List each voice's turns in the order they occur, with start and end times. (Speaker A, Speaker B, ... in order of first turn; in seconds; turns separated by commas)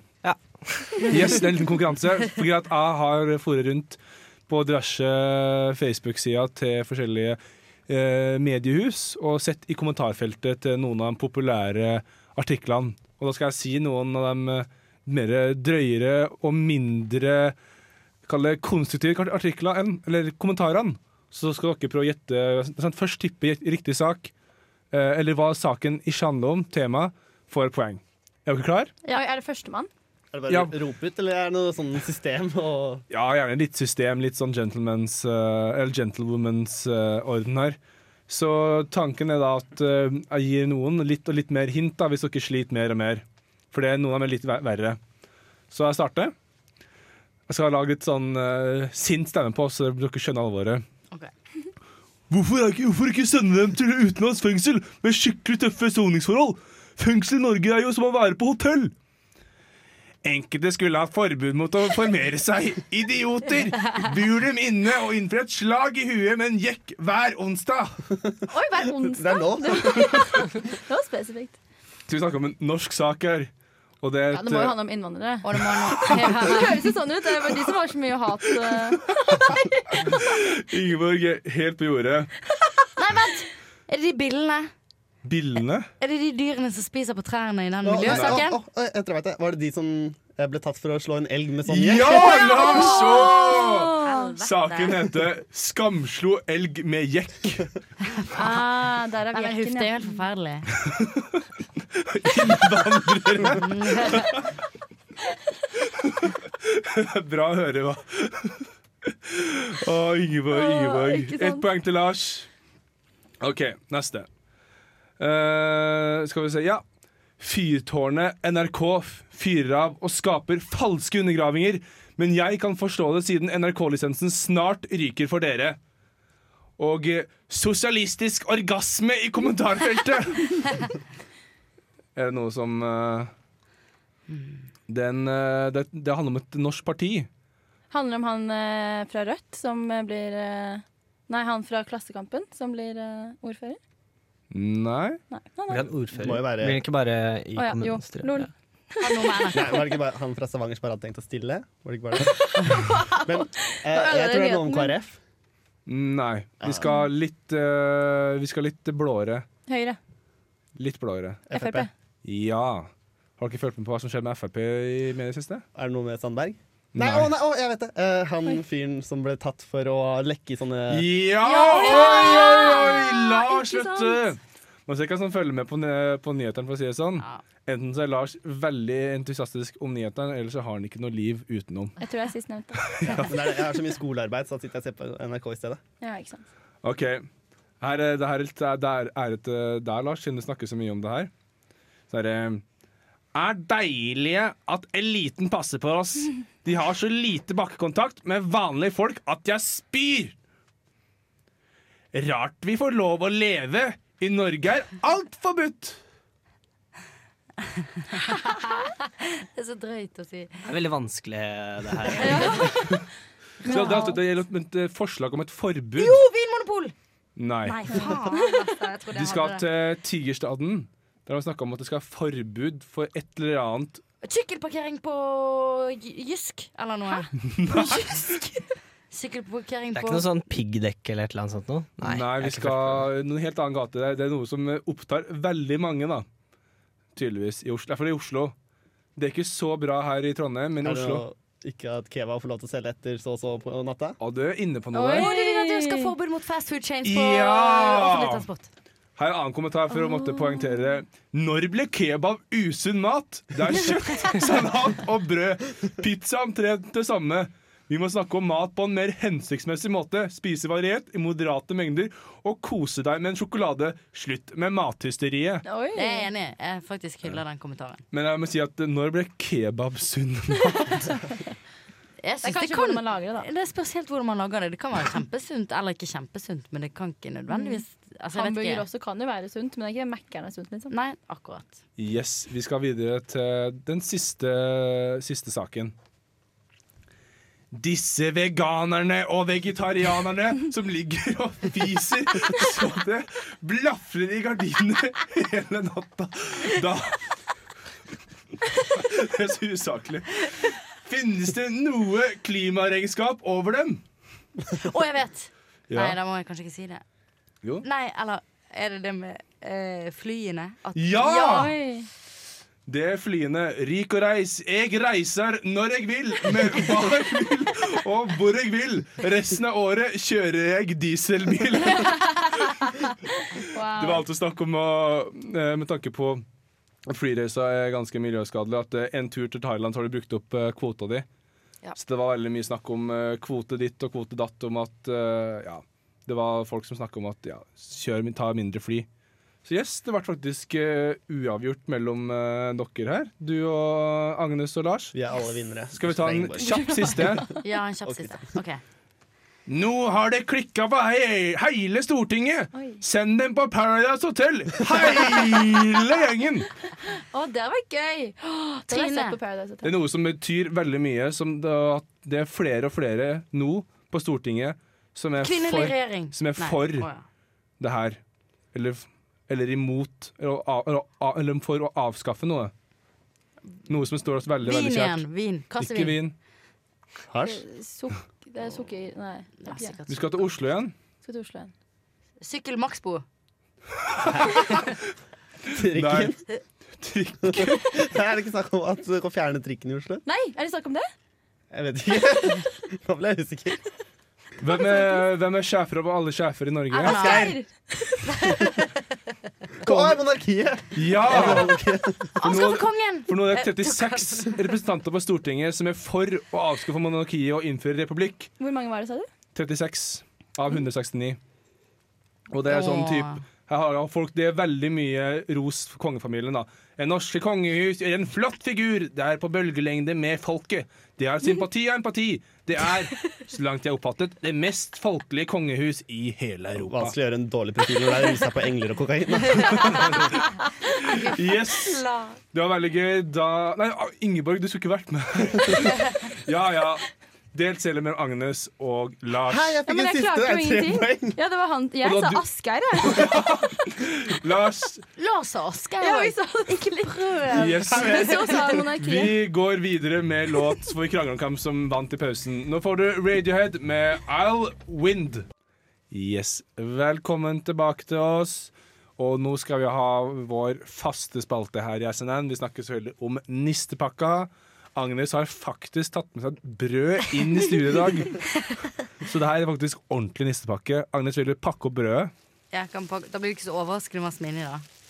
Speaker A: 0.2-1.4, Speaker B: 1.1-17.6, Speaker B: 18.2-24.3, Speaker B: 24.9-28.9, Speaker C: 29.1-29.9, Speaker D: 30.3-33.0, Speaker B: 30.5-30.7, Speaker B: 33.1-37.8, Speaker B: 38.3-45.0, Speaker B: 45.7-46.3, Speaker B: 47.5-50.8, Speaker B: 52.3-58.9, Speaker B: 60.2-68.1, Speaker C: 68.5-71.6, Speaker D: 69.0-70.4, Speaker B: 72.1-73.5, Speaker B: 74.0-74.8, Speaker C: 74.3-80.1, Speaker E: 75.4-76.9, Speaker B: 78.9-82.3, Speaker E: 83.0-84.7, Speaker B: 85.2-85.9, Speaker E: 86.0-88.6, Speaker D: 87.8-92.3, Speaker B: 88.0-88.4, Speaker B: 91.7-97.7, Speaker C: 92.2-94.3, Speaker E: 92.6-95.2, Speaker E: 98.0-100.7, Speaker C: 98.3-100.2, Speaker B: 100.7-104.5, Speaker E: 103.5-104.4, Speaker B: 105.8-112.5, Speaker C: 110.5-111.7, Speaker B: 113.4-114.3, Speaker B: 115.2-116.8, Speaker B: 117.4-125.8, Speaker B: 126.8-130.9, Speaker B: 132.2-133.3, Speaker E: 134.3-134.7, Speaker B: 134.9-137.3, Speaker C: 137.9-143.8, Speaker B: 144.5-145.2, Speaker C: 145.3-145.9, Speaker A: 145.7-148.5, Speaker D: 146.1-146.8, Speaker C: 147.5-149.3, Speaker E: 149.0-149.9, Speaker D: 149.5-152.5, Speaker C: 152.5-154.9, Speaker D: 153.1-155.2, Speaker B: 155.9-159.4, Speaker D: 156.6-156.9, Speaker C: 159.7-160.0, Speaker B: 160.8-161.4, Speaker D: 161.5-161.9, Speaker C: 161.5-161.9, Speaker B: 162.2-165.6, Speaker D: 165.7-171.1, Speaker B: 166.9-167.3, Speaker B: 170.9-181.9, Speaker E: 171.4-173.1, Speaker C: 171.5-174.2, Speaker C: 182.0-183.2, Speaker B: 182.8-183.3, Speaker D: 183.1-185.8, Speaker C: 186.0-186.4, Speaker B: 186.8-187.2, Speaker B: 187.8-191.3, Speaker B: 192.1-192.6, Speaker B: 193.3-200.3, Speaker B: 202.1-206.0, Speaker E: 207.7-210.6, Speaker A: 210.6-212.8, Speaker E: 212.2-212.8, Speaker C: 212.2-212.9, Speaker C: 213.6-214.2, Speaker B: 213.6-216.2, Speaker E: 213.7-214.1, Speaker E: 216.0-216.9, Speaker B: 217.4-218.2, Speaker E: 217.7-219.6, Speaker C: 217.9-218.6, Speaker B: 219.1-224.0, Speaker E: 224.2-228.4, Speaker B: 227.4-228.5, Speaker E: 229.1-230.2, Speaker A: 229.9-233.1, Speaker B: 232.0-236.2, Speaker B: 237.1-238.5, Speaker B: 239.2-241.2, Speaker D: 240.8-244.2, Speaker B: 244.2-245.3, Speaker C: 244.9-246.1, Speaker E: 245.1-248.7, Speaker B: 247.0-248.4, Speaker B: 249.2-265.6, Speaker C: 250.1-250.9, Speaker C: 265.6-266.3, Speaker E: 265.9-268.0, Speaker B: 268.1-271.2, Speaker E: 272.2-278.8, Speaker C: 272.4-273.5, Speaker C: 277.5-280.9, Speaker E: 280.9-281.8, Speaker B: 282.0-285.9, Speaker B: 287.7-297.4, Speaker B: 298.8-304.0, Speaker E: 304.7-307.0, Speaker B: 305.9-306.2, Speaker E: 307.8-311.8, Speaker B: 310.9-311.7, Speaker C: 311.4-312.1, Speaker B: 312.9-322.5, Speaker C: 321.9-324.2, Speaker B: 323.9-326.4, Speaker B: 327.1-331.2, Speaker B: 331.9-339.1, Speaker B: 339.6-345.1, Speaker D: 345.1-347.3, Speaker B: 345.9-347.5, Speaker E: 347.6-348.8, Speaker D: 348.1-348.4, Speaker B: 349.7-356.7, Speaker C: 352.7-353.0, Speaker C: 357.3-359.9, Speaker E: 358.9-359.4, Speaker B: 359.8-367.1, Speaker E: 365.4-367.2, Speaker B: 367.8-368.2, Speaker B: 368.7-372.7, Speaker B: 373.9-375.2, Speaker E: 374.6-376.2, Speaker B: 375.8-376.3, Speaker D: 377.3-377.6, Speaker C: 377.4-379.9, Speaker E: 379.6-380.5, Speaker B: 380.1-380.9, Speaker C: 381.2-381.7, Speaker E: 382.4-383.2, Speaker B: 384.0-384.9, Speaker B: 385.6-386.3, Speaker D: 385.7-386.4, Speaker B: 387.0-388.0, Speaker D: 387.4-390.2, Speaker C: 390.2-391.1, Speaker D: 391.7-393.8, Speaker B: 394.6-397.6, Speaker C: 396.9-398.7, Speaker E: 397.0-397.6, Speaker E: 398.4-398.8, Speaker D: 399.8-402.3, Speaker B: 400.9-401.8, Speaker E: 402.4-404.8, Speaker B: 402.4-408.5, Speaker C: 408.6-409.3, Speaker B: 409.5-411.4, Speaker B: 412.5-427.1, Speaker E: 412.6-413.4, Speaker D: 426.8-430.0, Speaker E: 429.6-430.3, Speaker B: 429.7-439.7, Speaker E: 431.0-432.4, Speaker D: 439.5-441.4, Speaker C: 439.9-443.4, Speaker B: 442.0-442.4, Speaker B: 443.0-445.0, Speaker E: 445.2-447.8, Speaker C: 446.0-449.4, Speaker B: 447.5-455.5, Speaker B: 456.1-468.4, Speaker B: 469.2-472.3, Speaker E: 472.7-474.8